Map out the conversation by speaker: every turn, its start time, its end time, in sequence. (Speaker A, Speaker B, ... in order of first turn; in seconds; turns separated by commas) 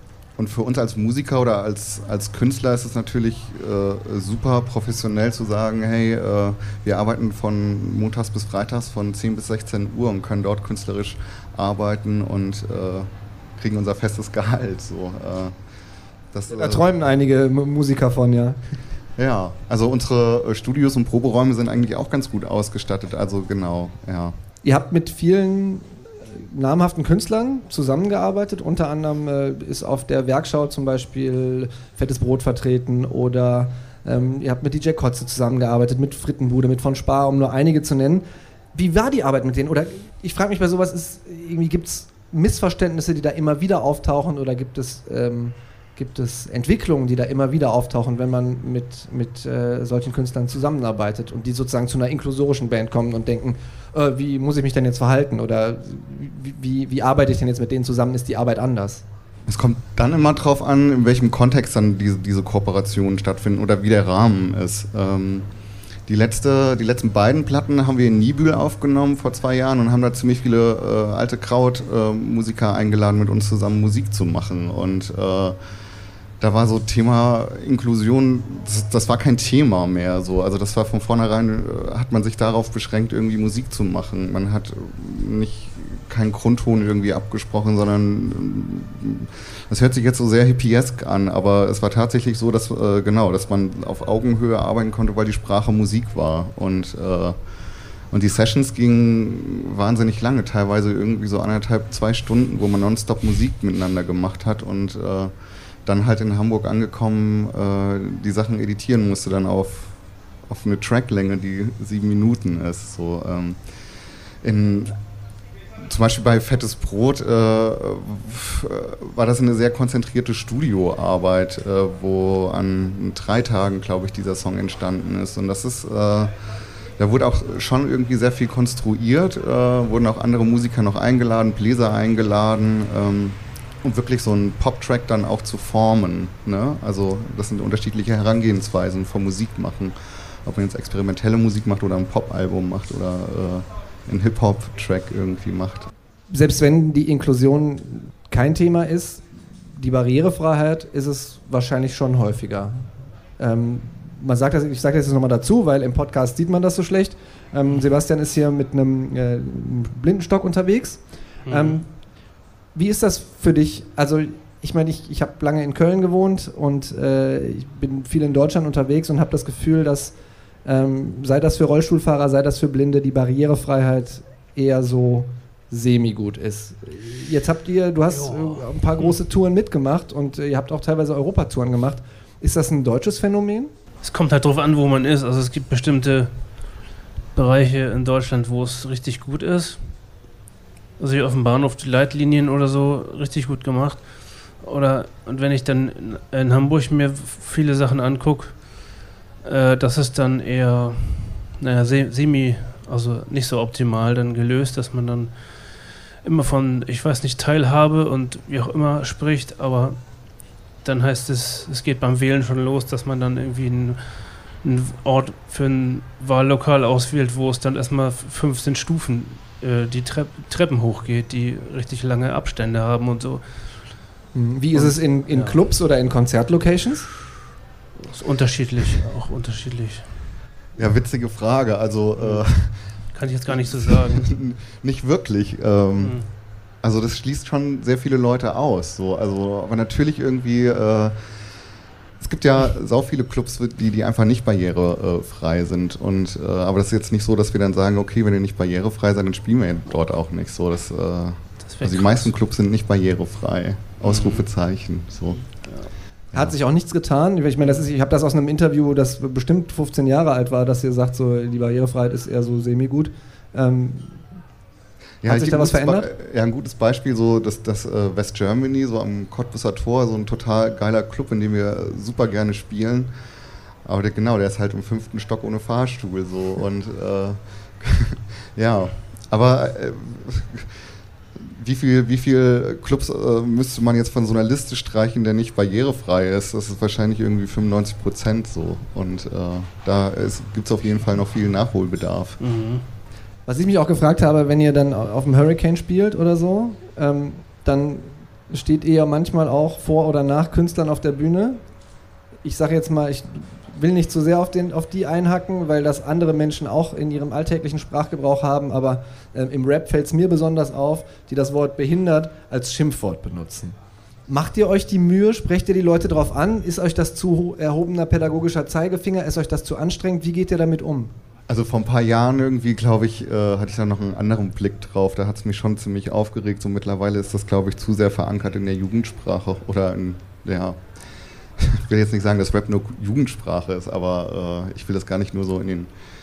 Speaker A: 0.4-15.5, Speaker A: 16.3-16.9, Speaker B: 16.5-18.6, Speaker A: 19.2-24.4, Speaker B: 24.6-59.0, Speaker A: 59.5-65.5, Speaker A: 66.1-75.6, Speaker A: 76.4-97.4, Speaker A: 98.1-105.3, Speaker A: 105.8-109.9, Speaker A: 110.5-113.6, Speaker A: 114.4-114.9, Speaker A: 115.9-126.3, Speaker A: 127.0-145.9, Speaker B: 146.3-161.8, Speaker C: 161.4-161.8, Speaker B: 162.7-183.7, Speaker C: 178.1-179.1, Speaker C: 184.0-186.3, Speaker C: 187.3-189.8, Speaker C: 191.0-194.0, Speaker C: 194.6-198.6, Speaker C: 199.4-205.3, Speaker C: 206.2-210.0, Speaker C: 210.8-223.9, Speaker B: 224.3-227.1, Speaker C: 224.7-225.6, Speaker C: 228.0-230.1, Speaker A: 230.8-232.9, Speaker C: 232.2-232.4, Speaker C: 233.1-234.3, Speaker A: 233.5-236.2, Speaker C: 236.0-236.3, Speaker A: 236.8-241.2, Speaker A: 242.2-255.5, Speaker C: 251.6-252.4, Speaker C: 254.0-254.5, Speaker B: 256.3-264.2, Speaker A: 265.2-273.1, Speaker B: 265.2-266.1, Speaker A: 273.8-280.7, Speaker A: 281.4-292.4, Speaker C: 292.4-292.8, Speaker B: 293.4-301.6, Speaker B: 302.4-313.7, Speaker B: 314.3-321.1, Speaker A: 321.5-330.8, Speaker A: 331.6-335.9